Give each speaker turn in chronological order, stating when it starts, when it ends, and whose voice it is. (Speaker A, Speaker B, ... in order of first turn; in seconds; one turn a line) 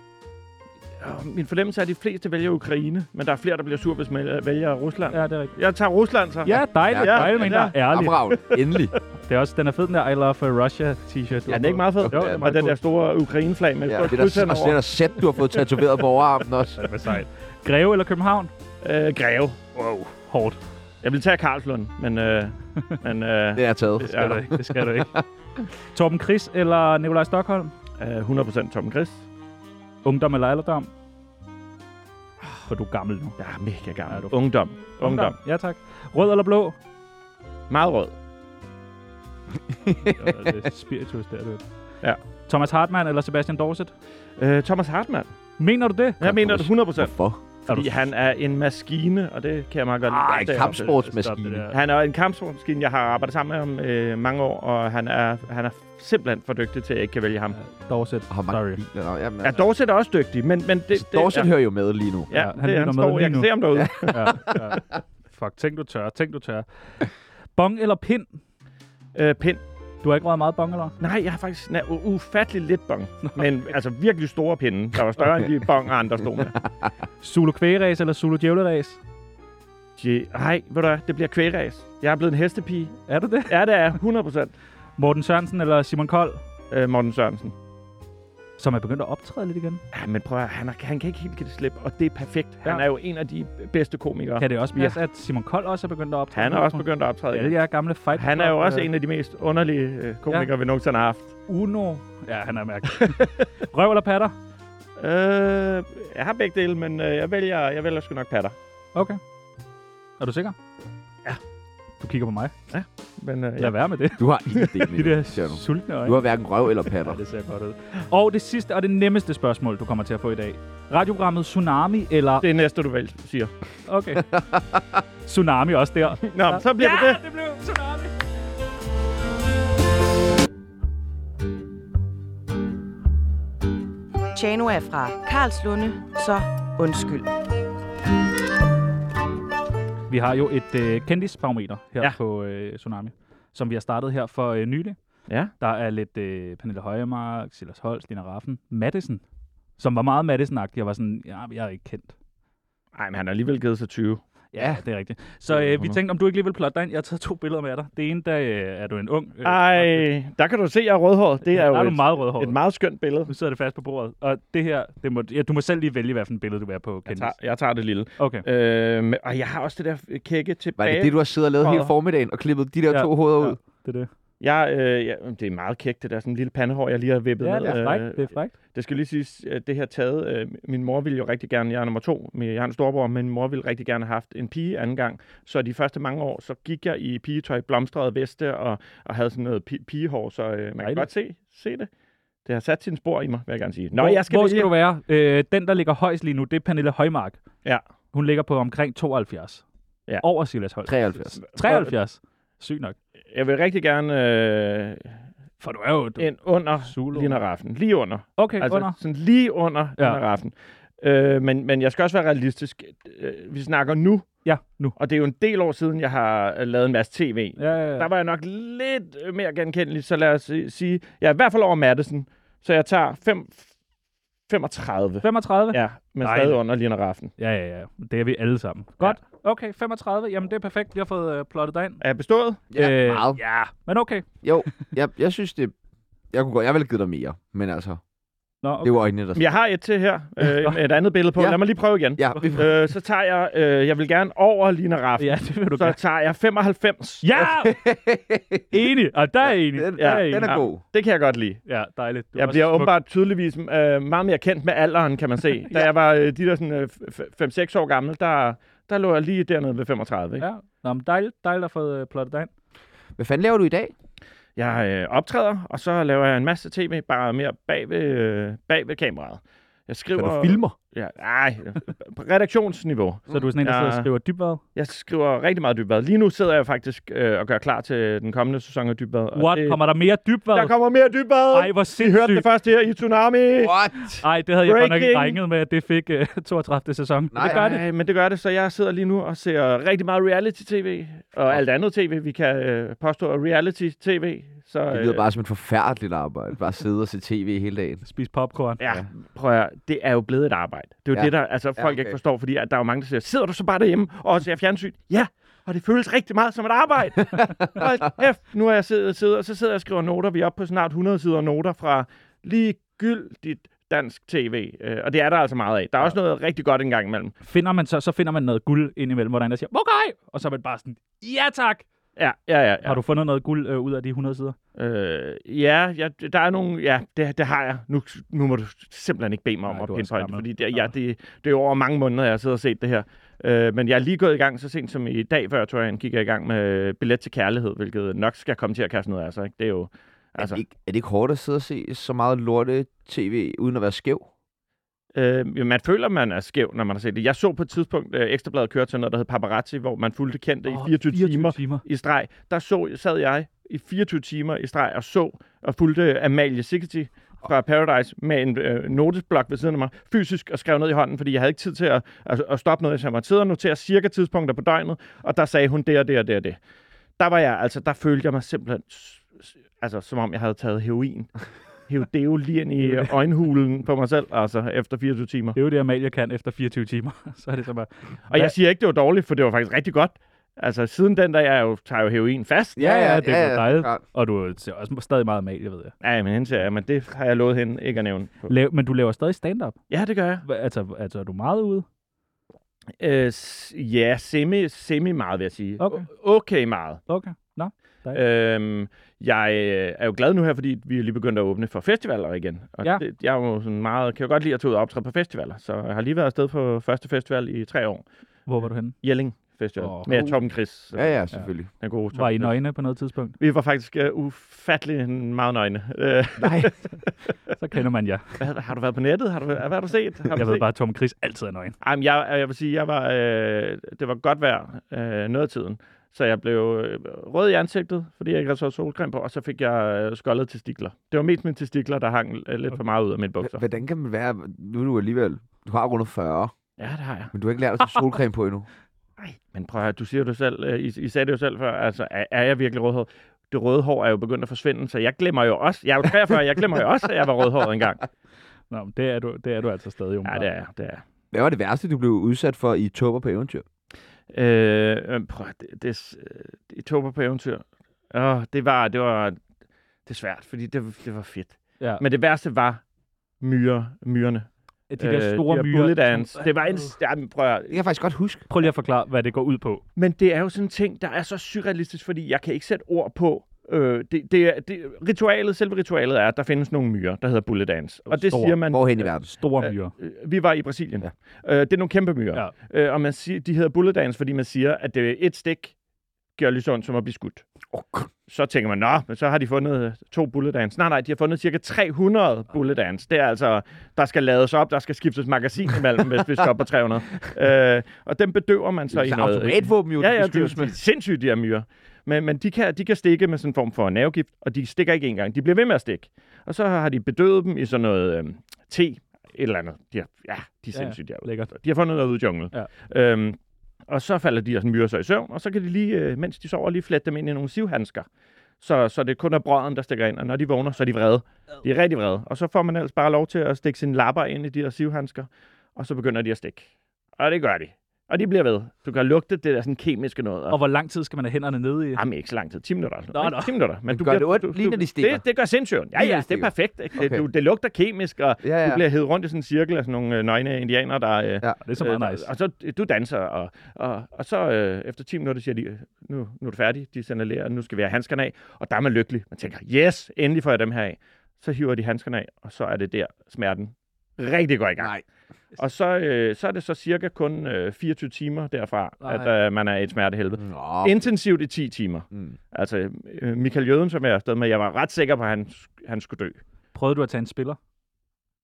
Speaker A: 1.0-7.8
Speaker B: 5.1-5.5
Speaker B: 6.4-8.2
Speaker C: 6.9-8.9
Speaker A: 8.3-9.0
Speaker B: 9.2-12.8
Speaker A: 11.5-14.8
Speaker C: 12.0-12.4
Speaker C: 13.9-16.9
Speaker B: 16.8-18.5
Speaker A: 18.8-19.9
Speaker B: 19.9-20.6
Speaker A: 21.0-24.4
Speaker C: 23.6-25.2
Speaker B: 24.0-25.2
Speaker B: 25.9-27.7
Speaker A: 28.0-29.2
Speaker B: 30.0-30.9
Speaker B: 32.7-33.4
Speaker A: 33.4-35.3
Speaker B: 34.1-36.7
Speaker A: 37.7-38.1
Speaker C: 39.7-40.6
Speaker B: 40.0-41.6
Speaker B: 42.5-43.9
Speaker A: 44.4-45.3
Speaker B: 45.6-46.2
Speaker A: 46.2-50.9
Speaker C: 46.2-47.4
Speaker B: 47.7-48.0
Speaker B: 50.1-51.7
Speaker C: 50.2-51.7
Speaker A: 51.7-57.6
Speaker B: 57.6-58.8
Speaker C: 58.3-59.6
Speaker A: 59.4-61.5
Speaker C: 60.9-62.3
Speaker A: 62.3-64.6
Speaker B: 62.3-68.3
Speaker C: 63.8-64.6
Speaker A: 69.1-69.6
Speaker B: 70.0-70.9
Speaker A: 71.0-76.6
Speaker B: 77.2-79.0
Speaker A: 80.0-84.5
Speaker B: 83.1-83.5
Speaker B: 85.0-86.4
Speaker A: 86.7-87.5
Speaker B: 88.6-89.8
Speaker A: 89.9-95.0
Speaker B: 94.4-98.9
Speaker A: 96.3-97.5
Speaker A: 98.1-101.3
Speaker B: 101.5-104.3
Speaker A: 102.9-103.4
Speaker A: 105.0-108.5
Speaker B: 110.2-110.5
Speaker B: 112.0-112.5
Speaker A: 112.7-113.7
Speaker B: 113.6-114.2
Speaker C: 114.2-117.2
Speaker B: 114.8-116.2
Speaker B: 116.9-122.5
Speaker A: 122.4-123.5
Speaker B: 123.9-124.3
Speaker C: 124.3-124.8
Speaker B: 125.2-128.1
Speaker A: 126.2-127.2
Speaker D: 134.3-137.3
Speaker B: 140.1-144.9
Speaker B: 145.6-149.2
Speaker B: 149.8-152.1
Speaker A: 152.9-154.2
Speaker B: 154.5-160.1
Speaker A: 155.5-156.0
Speaker A: 159.4-163.3
Speaker B: 161.5-162.6
Speaker B: 163.3-167.3
Speaker A: 167.1-171.9
Speaker B: 168.2-168.4
Speaker C: 170.8-173.6
Speaker B: 172.9-174.1
Speaker A: 174.4-191.9
Speaker B: 177.4-178.5
Speaker B: 190.8-191.1
Speaker A: 192.4-194.7
Speaker B: 193.9-197.4
Speaker B: 198.1-199.6
Speaker B: 200.2-203.0
Speaker C: 200.8-201.4
Speaker A: 201.4-201.9
Speaker A: 203.3-205.1
Speaker B: 205.6-206.3
Speaker A: 206.2-214.3
Speaker B: 206.8-207.4
Speaker B: 208.4-209.0
Speaker B: 214.4-214.9
Speaker A: 214.9-223.7
Speaker B: 217.6-218.1
Speaker A: 224.5-227.3
Speaker B: 225.2-226.6
Speaker B: 227.4-232.0
Speaker A: 232.0-232.6
Speaker C: 232.7-233.4
Speaker B: 232.7-234.8
Speaker C: 234.4-235.7
Speaker C: 236.3-238.0
Speaker B: 238.6-239.0
Speaker C: 238.8-239.5
Speaker A: 239.3-247.3
Speaker C: 242.2-242.7
Speaker B: 245.2-246.0
Speaker B: 247.2-247.9
Speaker C: 247.6-248.7
Speaker B: 248.7-250.6
Speaker C: 249.7-250.8
Speaker A: 250.0-251.6
Speaker B: 251.7-252.9
Speaker A: 252.3-260.4
Speaker B: 260.4-262.5
Speaker C: 263.2-263.9
Speaker A: 264.6-274.1
Speaker C: 270.1-270.7
Speaker B: 273.3-274.6
Speaker A: 274.7-279.8
Speaker B: 279.4-280.7
Speaker A: 280.5-283.8
Speaker B: 281.5-282.5
Speaker C: 283.6-284.2
Speaker B: 284.2-287.8
Speaker A: 284.6-285.4
Speaker C: 287.3-287.7
Speaker A: 287.4-295.2
Speaker C: 294.9-298.0
Speaker B: 298.1-298.8
Speaker A: 298.8-317.3
Speaker C: 301.1-302.1
Speaker B: 317.4-321.8
Speaker A: 322.2-323.0
Speaker B: 322.8-324.6
Speaker A: 324.8-340.6
Speaker B: 329.7-330.9
Speaker C: 340.4-344.2
Speaker A: 345.1-366.6
Speaker B: 350.6-351.8
Speaker A: 367.2-371.3
Speaker A: 371.9-375.6
Speaker B: 375.5-378.5
Speaker A: 378.3-382.9
Speaker C: 382.8-384.0
Speaker B: 382.8-385.9
Speaker A: 386.0-388.5
Speaker B: 388.5-389.8
Speaker A: 389.9-390.4
Speaker B: 390.4-391.8
Speaker A: 393.0-397.0
Speaker B: 395.8-396.1
Speaker B: 397.1-398.2
Speaker A: 398.1-408.0
Speaker B: 408.5-409.0
Speaker A: 409.0-412.6
Speaker B: 409.8-410.4
Speaker C: 410.9-411.7
Speaker B: 412.1-413.4
Speaker A: 413.4-417.4
Speaker C: 416.4-416.7
Speaker B: 417.5-418.4
Speaker A: 418.4-420.6
Speaker B: 420.3-421.8
Speaker A: 421.8-433.6
Speaker C: 433.4-436.5
Speaker A: 436.8-437.3
Speaker C: 437.3-438.7
Speaker A: 439.2-448.0
Speaker B: 448.7-450.5
Speaker A: 450.2-451.0
Speaker C: 451.3-453.6
Speaker A: 454.3-459.4
Speaker A: 460.1-462.8
Speaker A: 463.4-467.8
Speaker B: 464.9-466.9
Speaker C: 467.7-468.5
Speaker B: 468.5-469.8
Speaker A: 469.9-479.1
Speaker B: 478.1-479.9
Speaker C: 478.7-479.3
Speaker A: 479.6-485.7
Speaker A: 486.4-487.5
Speaker C: 487.7-488.1
Speaker A: 488.3-518.1
Speaker C: 498.9-500.8
Speaker B: 510.7-511.5
Speaker A: 518.6-530.6
Speaker B: 530.5-532.0
Speaker A: 531.9-554.9
Speaker B: 533.1-533.5
Speaker C: 533.9-535.2
Speaker C: 536.0-537.2
Speaker C: 538.4-538.8
Speaker B: 541.6-542.3
Speaker C: 554.8-555.0
Speaker A: 555.6-566.4
Speaker B: 559.0-559.3
Speaker C: 560.4-561.1
Speaker B: 566.7-567.6